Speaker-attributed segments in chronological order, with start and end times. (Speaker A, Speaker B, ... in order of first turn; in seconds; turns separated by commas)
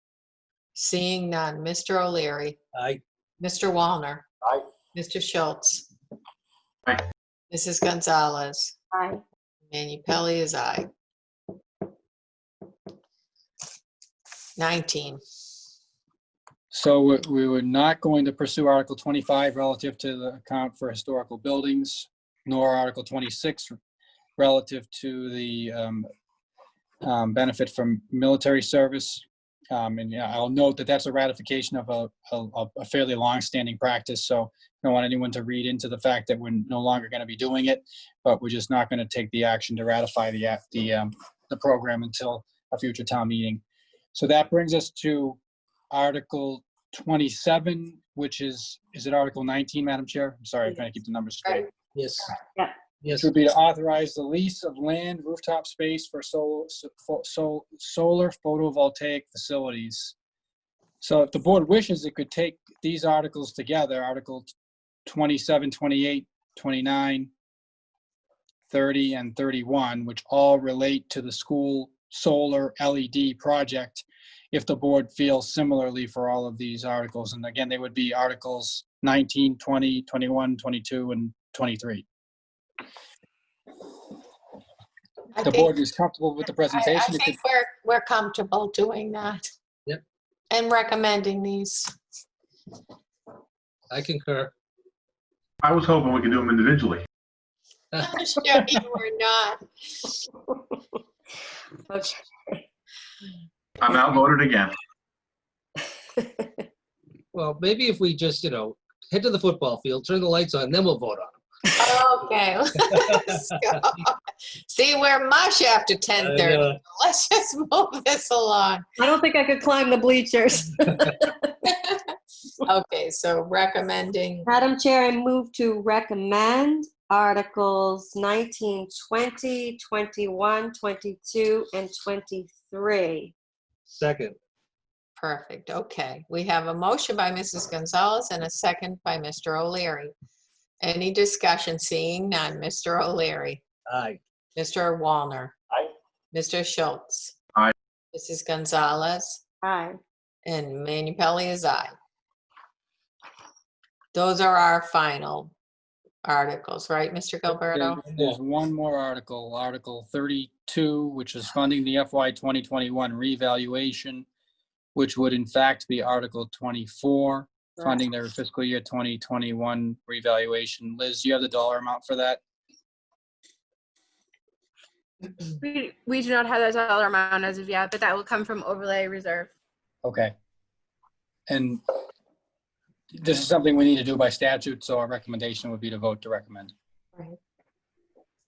Speaker A: 0.7-2.6, Speaker B: 2.7-3.0, Speaker A: 3.4-4.2, Speaker A: 4.9-5.9, Speaker A: 7.5-8.8, Speaker C: 8.9-9.2, Speaker A: 9.7-10.9, Speaker A: 14.6-15.2, Speaker D: 16.7-23.7, Speaker D: 24.4-26.1, Speaker D: 27.0-43.6, Speaker D: 44.1-45.4, Speaker D: 45.9-51.7, Speaker B: 51.9-52.3, Speaker C: 52.4-52.7, Speaker B: 53.0-53.3, Speaker D: 53.1-60.1, Speaker D: 61.0-64.5, Speaker D: 65.0-67.3, Speaker D: 68.7-82.0, Speaker A: 85.4-85.7, Speaker D: 85.4-87.4, Speaker A: 86.7-89.5, Speaker A: 90.5-91.9, Speaker B: 93.9-94.5, Speaker E: 95.6-97.0, Speaker A: 98.0-100.1, Speaker C: 101.9-102.6, Speaker E: 103.8-104.8, Speaker C: 106.2-106.6, Speaker B: 107.3-111.3, Speaker A: 111.8-118.8, Speaker B: 112.9-113.2, Speaker B: 116.2-116.8, Speaker C: 119.0-121.3, Speaker A: 121.7-122.0, Speaker A: 122.6-124.5, Speaker C: 124.5-133.3, Speaker B: 133.9-134.3, Speaker A: 135.2-140.1, Speaker A: 140.8-143.6, Speaker B: 143.9-144.2, Speaker A: 144.6-145.5, Speaker A: 146.3-147.3, Speaker A: 148.1-149.4, Speaker C: 149.6-150.0, Speaker A: 150.4-151.9, Speaker A: 154.1-155.5, Speaker A: 156.2-158.0, Speaker D: 157.7-164.2, Speaker B: 158.1-158.4, Speaker D: 164.9-172.4, Speaker F: 175.6-179.5, Speaker D: 180.0-180.3, Speaker D: 181.5-181.8, Speaker D: 183.1-186.7